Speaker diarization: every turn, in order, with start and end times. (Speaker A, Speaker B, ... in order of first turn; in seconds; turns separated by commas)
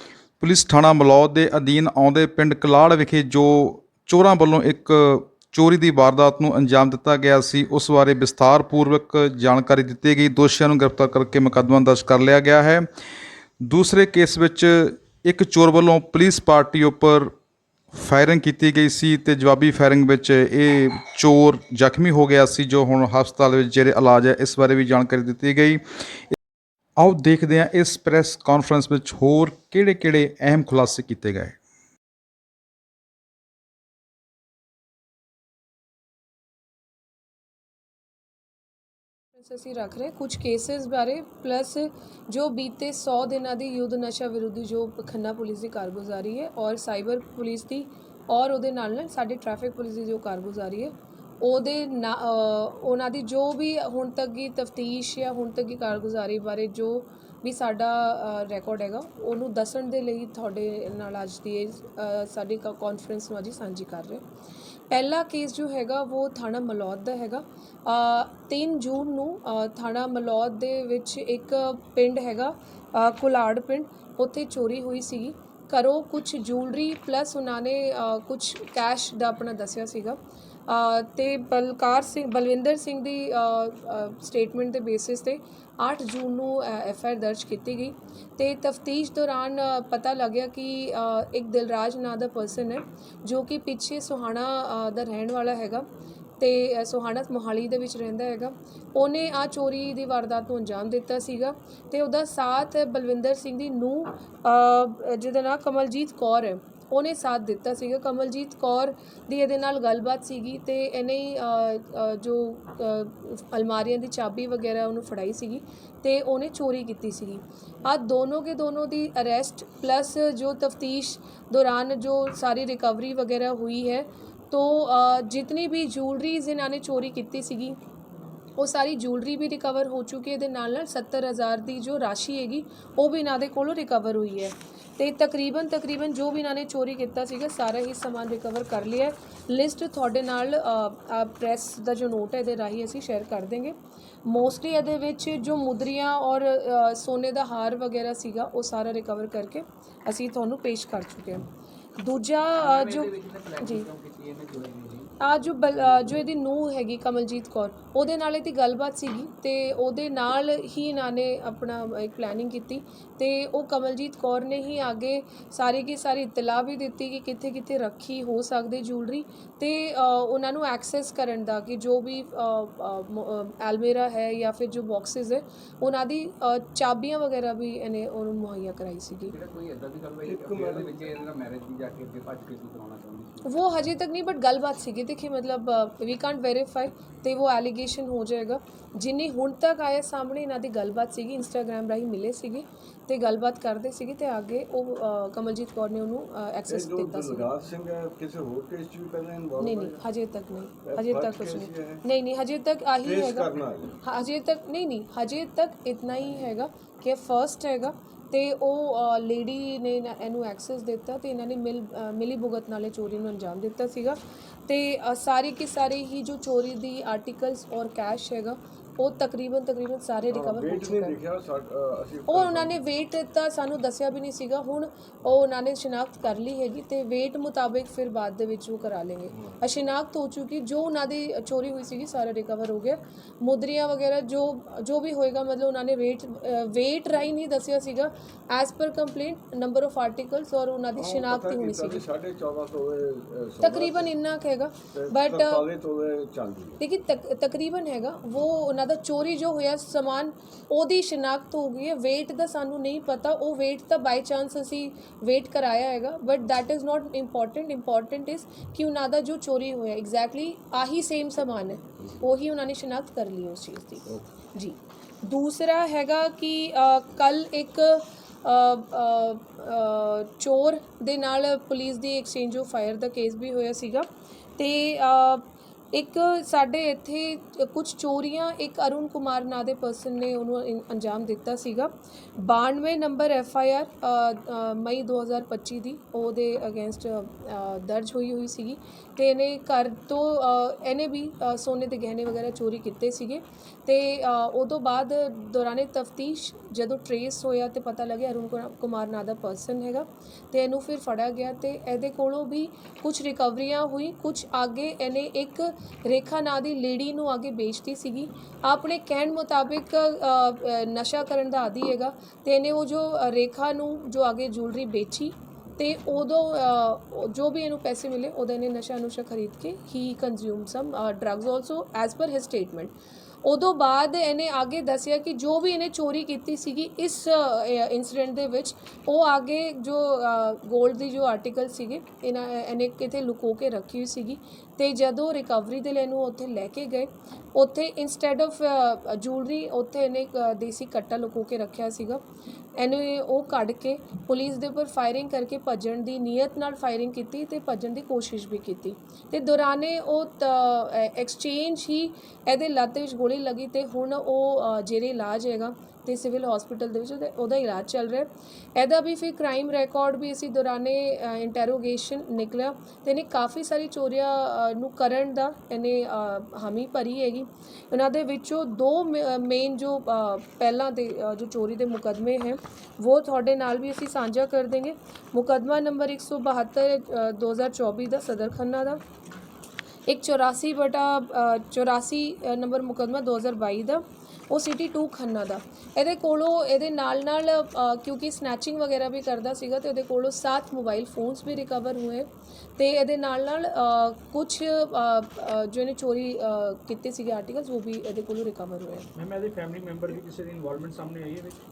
Speaker A: 0.4-12.9, Speaker A: 13.6-17.3, Speaker A: 17.9-26.3, Speaker A: 27.0-31.6, Speaker B: 39.4-64.2, Speaker B: 64.9-95.9, Speaker B: 96.4-127.8, Speaker B: 128.6-151.5, Speaker B: 152.0-153.9, Speaker C: 152.6-155.1, Speaker B: 155.2-179.3, Speaker C: 179.3-183.5, Speaker D: 180.2-181.1, Speaker B: 183.4-197.5, Speaker D: 196.7-200.0, Speaker B: 199.6-221.2, Speaker D: 200.8-202.0, Speaker D: 203.0-204.0, Speaker D: 220.3-222.8, Speaker B: 222.3-242.0, Speaker D: 229.3-229.6, Speaker D: 241.0-244.1, Speaker B: 243.6-245.6, Speaker D: 244.9-246.8, Speaker B: 246.8-342.2, Speaker B: 342.8-379.0, Speaker B: 380.1-399.1, Speaker E: 399.1-401.6